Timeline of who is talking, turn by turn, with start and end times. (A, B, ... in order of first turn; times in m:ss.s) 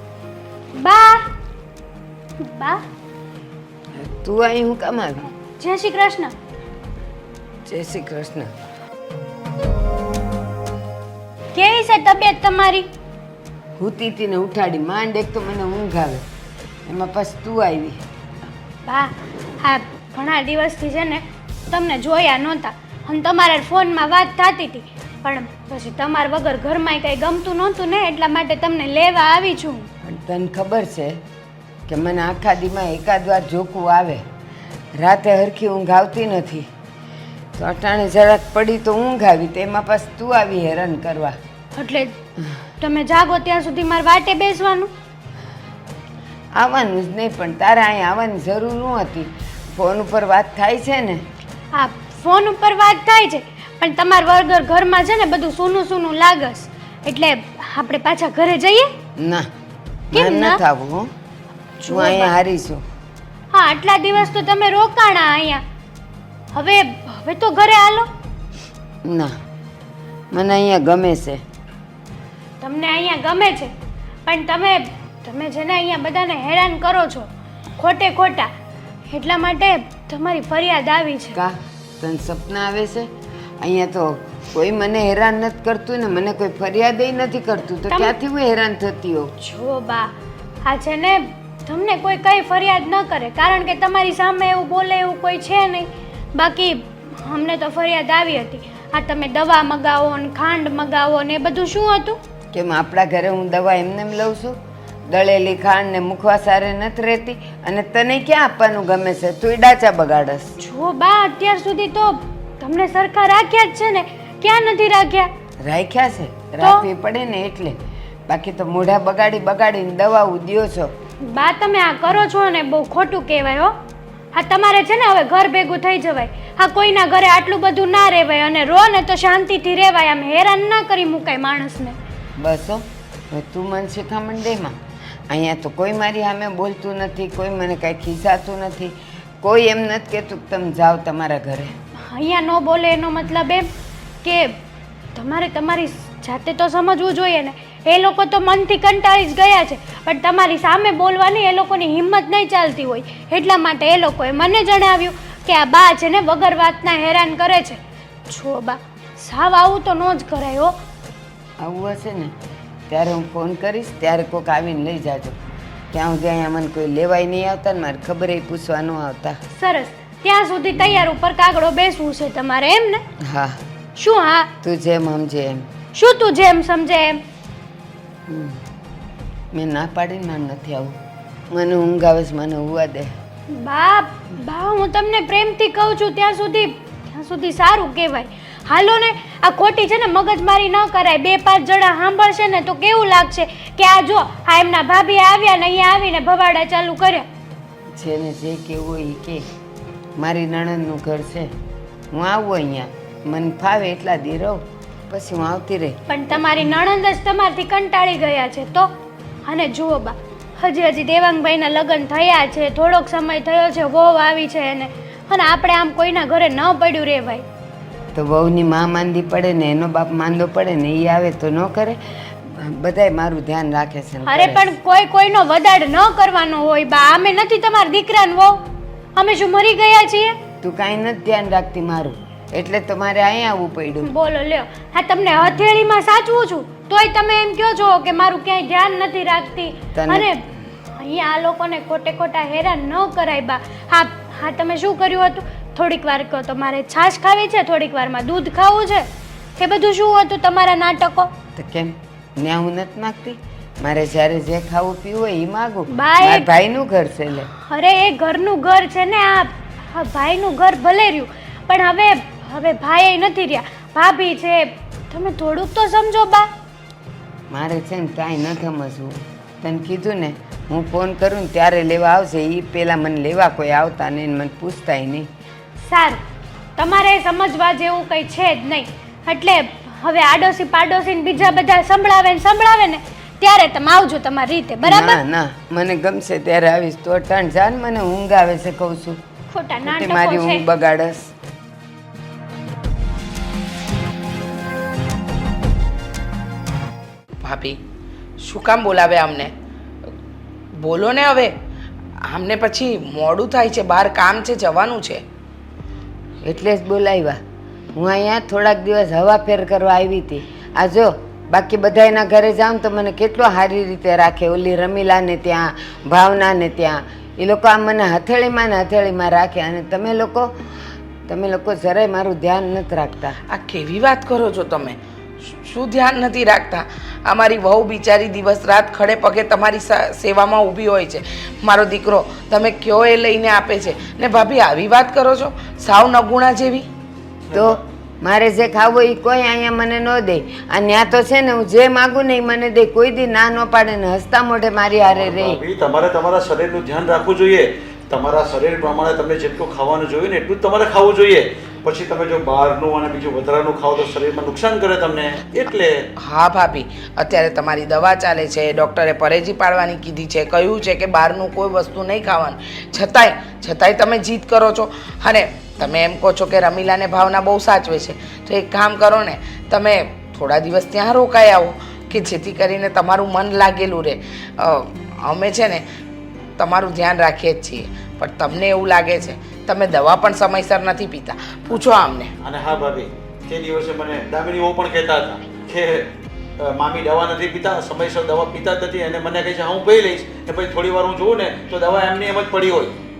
0:00.8-0:01.3 A
0:02.4-0:02.8 A
0:03.9-0:05.3 B
0:05.6-0:06.3 A
0:07.7-0:08.5 B
0:11.6-0:12.9 A
0:13.8-0:16.3 B
0:16.9-0:18.0 B
0:18.9-0:29.9 A
0:30.0-0:31.2 B
0:31.9-0:34.3 B
0:35.0-0:36.7 B
0:37.6-0:41.4 B
0:41.8-0:42.2 A
0:42.8-0:44.9 A
0:46.6-0:51.3 B
0:51.8-0:58.9 A
0:59.2-0:59.5 B
1:00.1-1:01.1 B
1:00.1-1:00.6 A
1:01.8-1:02.3 A
1:01.9-1:02.8 B
1:03.5-1:05.6 A
1:06.5-1:08.1 A
1:09.0-1:09.4 B
1:10.3-1:11.4 B
1:12.6-1:13.7 A
1:14.3-1:18.5 A
1:19.1-1:21.4 A
1:21.3-1:29.3 B
1:27.9-1:28.2 A
1:29.4-1:30.1 A
1:30.6-1:42.2 A
1:42.5-1:50.5 B
1:50.6-1:55.3 A
1:55.6-2:00.9 B
1:56.6-1:56.9 A
2:01.3-2:03.7 A
2:04.3-2:12.0 A
2:12.4-2:21.8 B
2:22.0-2:23.7 A
2:24.2-2:24.6 A
2:25.1-2:40.8 A
2:41.6-2:42.4 B
2:42.9-2:45.4 B
2:45.9-2:49.4 B
2:49.5-2:53.0 A
2:53.2-2:53.6 B
2:54.0-2:54.5 A
2:54.6-2:55.7 B
2:56.0-2:57.2 A
2:58.3-2:58.6 B
2:59.5-3:01.0 B
3:01.5-3:03.2 B
3:03.5-3:17.3 A
3:17.9-3:19.5 B
3:20.2-3:21.5 B
3:22.1-3:26.0 B
3:26.1-3:28.9 A
3:29.5-3:37.4 A
3:38.1-3:44.7 B
3:44.3-3:48.6 A
3:49.2-3:50.4 A
3:50.6-3:54.1 B
3:54.0-4:00.4 A
4:00.0-4:00.3 B
4:01.0-4:09.1 A
4:09.6-4:11.3 A
4:11.6-4:17.5 B
4:15.9-4:16.5 A
4:17.6-4:26.5 A
4:27.5-4:35.3 B
4:35.8-4:36.2 A
4:36.8-4:45.2 A
4:44.8-4:49.2 B
4:49.5-4:50.6 A
4:49.8-4:51.3 B
4:57.4-4:57.8 C
4:58.4-4:59.5 C
5:00.8-5:01.5 C
5:02.2-5:05.2 C
5:06.4-5:07.4 B
5:07.9-5:20.6 B
5:21.3-5:23.4 B
5:23.5-5:25.0 C
5:25.5-5:36.9 C
5:37.5-5:37.8 D
5:37.5-5:45.6 B
5:45.1-5:56.1 D
5:56.2-6:15.8 C
6:16.6-6:22.3 C
6:22.4-6:32.9 D